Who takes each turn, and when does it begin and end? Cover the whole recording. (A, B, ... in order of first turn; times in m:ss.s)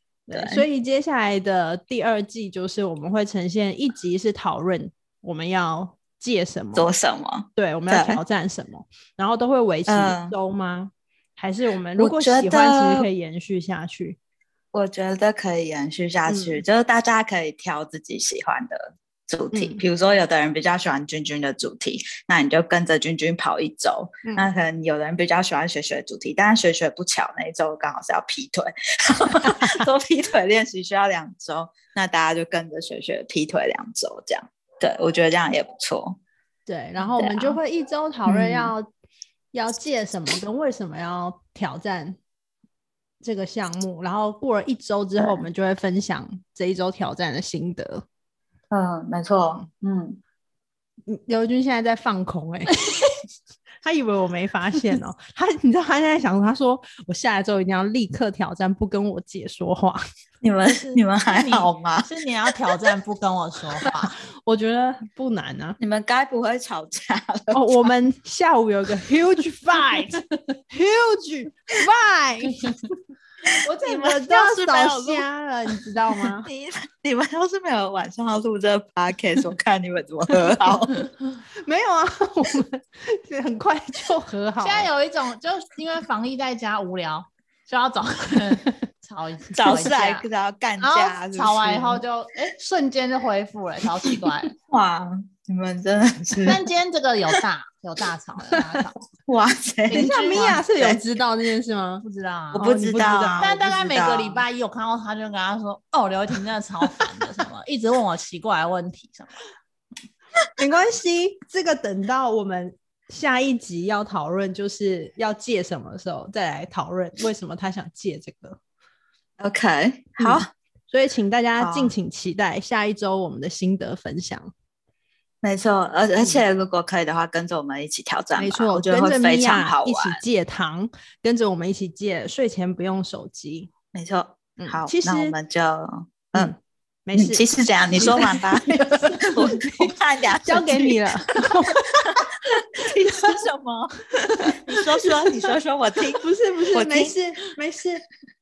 0:00.3-0:06.9 A
0:00.3-0:00.6 B
0:06.7-0:08.2 B
0:07.6-0:14.2 A
0:09.9-0:10.4 B
0:12.0-0:13.1 B
0:14.7-0:36.2 B
0:16.3-0:16.6 A
0:19.5-0:19.8 A
0:29.4-0:29.8 A
0:36.6-0:38.9 A
0:37.0-0:37.6 B
0:38.2-0:38.7 B
0:39.5-0:42.2 A
0:43.2-0:48.0 A
0:45.2-0:45.4 B
0:48.7-0:50.2 B
0:51.1-0:52.8 A
0:53.8-1:00.0 A
1:00.4-1:02.1 B
1:00.8-1:04.1 C
1:04.4-1:05.8 A
1:05.8-1:07.9 B
1:07.5-1:12.7 A
1:13.7-1:16.5 A
1:13.8-1:15.3 B
1:16.4-1:20.9 B
1:21.6-1:24.9 A
1:24.6-1:30.2 C
1:29.6-1:32.0 B
1:30.8-1:34.5 C
1:34.6-1:36.6 B
1:36.4-1:39.0 C
1:39.2-1:41.1 B
1:39.9-1:40.6 C
1:39.9-1:42.0 A
1:42.0-1:42.6 C
1:42.5-1:44.4 B
1:42.6-1:43.6 A
1:43.4-1:49.4 C
1:50.6-1:58.6 A
1:59.4-2:00.5 B
2:00.2-2:04.5 A
2:01.6-2:01.9 B
2:05.4-2:10.2 B
2:08.4-2:13.7 A
2:13.9-2:16.5 B
2:14.6-2:15.4 A
2:16.3-2:22.2 A
2:17.1-2:21.1 B
2:22.8-2:23.3 A
2:23.0-2:24.1 B
2:24.7-2:27.2 B
2:26.2-2:28.0 A